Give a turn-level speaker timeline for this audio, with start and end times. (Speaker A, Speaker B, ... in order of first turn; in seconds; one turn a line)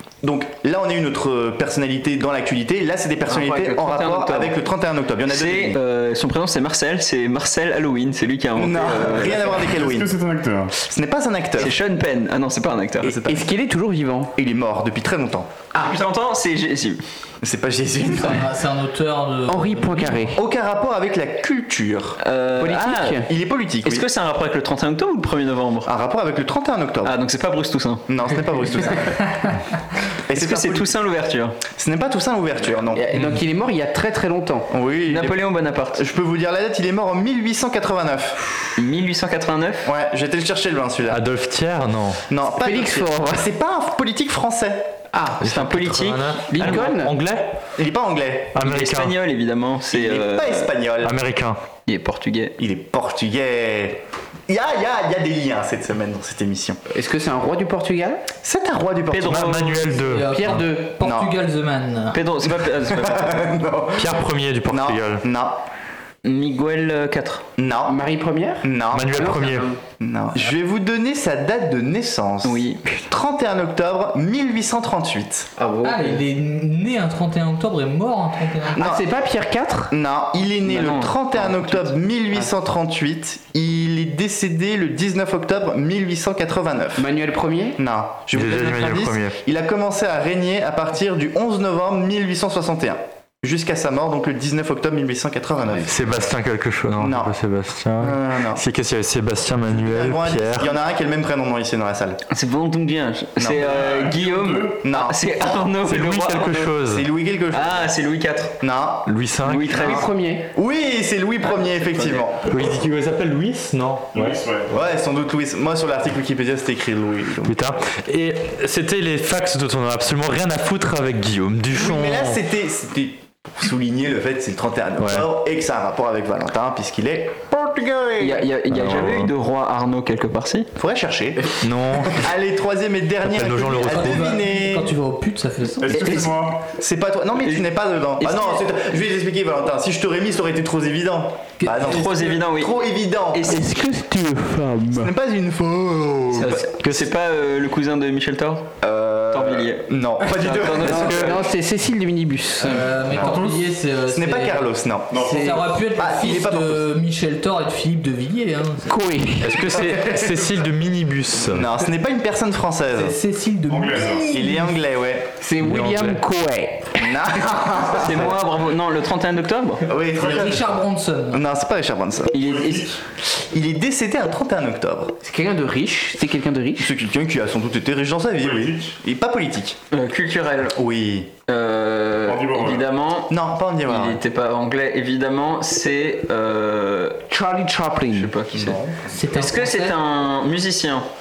Speaker A: 0.2-5.8
Speaker B: 3.3-4.6
Speaker B: 5.3-9.6
Speaker A: 8.6-10.2
Speaker C: 9.4-10.7
Speaker A: 10.8-11.8
Speaker B: 11.6-13.1
Speaker A: 13.0-13.5
Speaker D: 13.2-14.3
Speaker A: 14.4-15.5
Speaker B: 15.7-17.0
Speaker A: 17.4-18.5
Speaker E: 18.1-20.3
Speaker D: 19.5-20.4
Speaker A: 20.4-22.2
Speaker B: 22.2-23.2
Speaker D: 22.6-23.3
Speaker A: 23.2-24.1
Speaker B: 23.8-25.9
Speaker A: 25.9-27.1
Speaker B: 27.0-28.1
Speaker A: 28.1-29.6
Speaker A: 30.3-31.0
Speaker B: 30.4-31.6
Speaker A: 31.8-33.0
Speaker D: 32.9-34.7
Speaker A: 34.7-38.4
Speaker B: 35.1-36.0
Speaker B: 38.8-39.9
Speaker A: 39.9-41.2
Speaker F: 41.1-42.2
Speaker A: 42.3-44.9
Speaker D: 42.6-43.5
Speaker D: 45.1-45.4
Speaker F: 45.4-47.5
Speaker B: 45.4-46.8
Speaker D: 46.5-47.1
Speaker A: 47.8-48.6
Speaker F: 48.5-49.1
Speaker B: 48.6-50.7
Speaker A: 49.9-51.2
Speaker F: 51.0-51.6
Speaker B: 51.9-52.5
Speaker A: 52.6-56.8
Speaker D: 56.9-58.2
Speaker A: 58.4-59.9
Speaker B: 59.1-60.0
Speaker F: 59.2-60.6
Speaker E: 60.0-62.2
Speaker D: 60.3-60.9
Speaker A: 61.0-61.3
Speaker B: 62.1-63.5
Speaker A: 62.5-65.6
Speaker F: 64.0-65.2
Speaker B: 66.2-67.5
Speaker A: 67.6-68.0
Speaker D: 67.9-69.8
Speaker A: 68.6-69.2
Speaker F: 68.9-69.7
Speaker A: 70.0-75.5
Speaker B: 72.4-72.8
Speaker D: 75.6-76.2
Speaker E: 75.8-78.8
Speaker D: 78.7-79.9
Speaker A: 78.8-79.0
Speaker A: 79.9-87.1
Speaker B: 80.7-81.8
Speaker D: 87.0-87.8
Speaker A: 87.8-96.0
Speaker F: 88.3-89.4
Speaker F: 95.8-100.7
Speaker A: 97.0-97.3
Speaker A: 98.0-98.6
Speaker A: 99.7-102.2
Speaker B: 102.3-106.7
Speaker A: 103.4-103.8
Speaker C: 103.5-104.8
Speaker A: 104.8-105.2
Speaker F: 105.8-107.1
Speaker A: 106.9-107.9
Speaker B: 107.5-108.5
Speaker A: 108.6-109.1
Speaker F: 109.1-109.8
Speaker B: 109.5-110.1
Speaker A: 109.8-110.0
Speaker D: 109.8-110.5
Speaker A: 110.5-112.6
Speaker B: 111.4-112.2
Speaker F: 112.5-114.4
Speaker C: 114.1-114.7
Speaker A: 114.7-117.6
Speaker F: 117.5-122.4
Speaker A: 121.8-128.5
Speaker F: 125.0-125.3
Speaker B: 128.2-130.7
Speaker F: 128.7-129.3
Speaker A: 130.8-134.9
Speaker F: 131.6-132.2
Speaker F: 133.2-134.3
Speaker E: 133.8-135.9
Speaker C: 135.8-136.6
Speaker A: 135.9-143.6
Speaker B: 135.9-136.3
Speaker B: 138.2-138.7
Speaker E: 141.6-142.3
Speaker B: 141.8-142.8
Speaker B: 143.3-143.7
Speaker D: 143.5-145.1
Speaker A: 144.9-146.7
Speaker B: 146.3-148.8
Speaker A: 148.8-151.4
Speaker B: 149.3-151.4
Speaker D: 150.8-153.0
Speaker E: 152.6-159.0
Speaker A: 153.1-153.5
Speaker A: 154.1-155.2
Speaker C: 155.1-155.7
Speaker A: 156.0-156.8
Speaker D: 158.9-159.8
Speaker F: 159.4-161.7
Speaker A: 159.8-160.2
Speaker A: 161.5-163.2
Speaker E: 162.9-164.8
Speaker C: 163.7-164.3
Speaker A: 164.2-165.3
Speaker D: 165.4-167.7
Speaker F: 165.6-166.2
Speaker A: 167.0-168.3
Speaker B: 167.9-169.8
Speaker A: 169.8-170.8
Speaker E: 170.2-171.4
Speaker C: 170.2-170.5
Speaker A: 171.3-172.3
Speaker B: 172.3-173.0
Speaker C: 172.3-172.9
Speaker A: 173.3-175.1
Speaker D: 175.2-176.9
Speaker A: 176.8-179.8
Speaker C: 178.4-179.0
Speaker B: 179.9-180.8
Speaker A: 180.8-181.3
Speaker B: 181.5-183.3
Speaker C: 182.2-182.9
Speaker A: 183.3-184.2
Speaker B: 183.8-187.2
Speaker D: 187.3-188.3
Speaker B: 188.1-188.8
Speaker A: 188.5-189.0
Speaker E: 189.1-190.0
Speaker B: 189.3-191.1